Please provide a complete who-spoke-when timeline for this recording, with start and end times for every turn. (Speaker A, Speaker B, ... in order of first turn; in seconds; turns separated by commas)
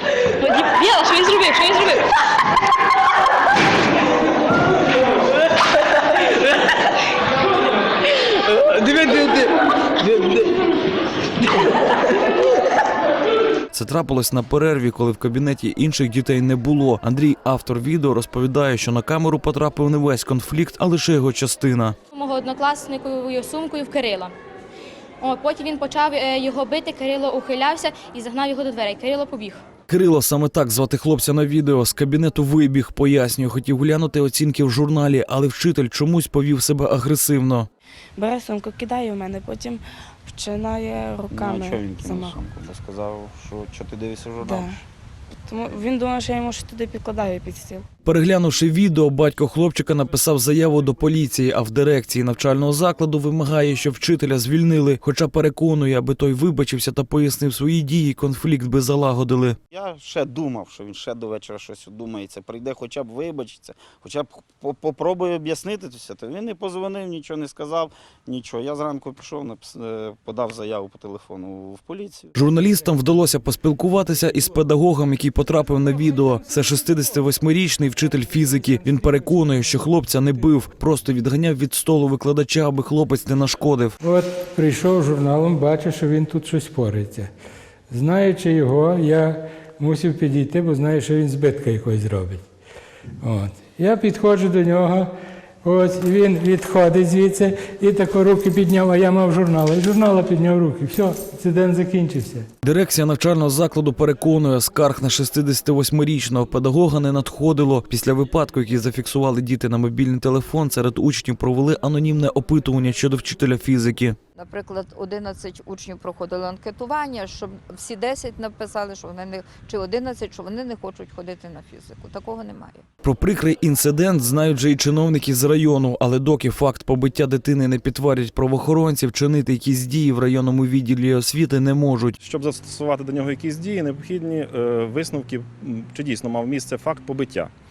Speaker A: 0.4-2.1, Speaker B: 13.7-22.0, Speaker A: 22.1-24.3, Speaker A: 25.2-29.6, Speaker B: 29.9-37.7, Speaker C: 38.2-42.4, Speaker D: 41.3-44.7, Speaker C: 44.4-44.8, Speaker C: 45.5-47.9, Speaker B: 48.0-59.6, Speaker D: 59.7-72.3, Speaker B: 72.3-84.0, Speaker E: 84.1-87.3, Speaker E: 88.0-92.4, Speaker E: 93.3-95.1, Speaker E: 95.7-102.4, Speaker B: 102.6-114.2, Speaker F: 114.3-122.8, Speaker B: 123.0-132.2, Speaker G: 132.2-137.5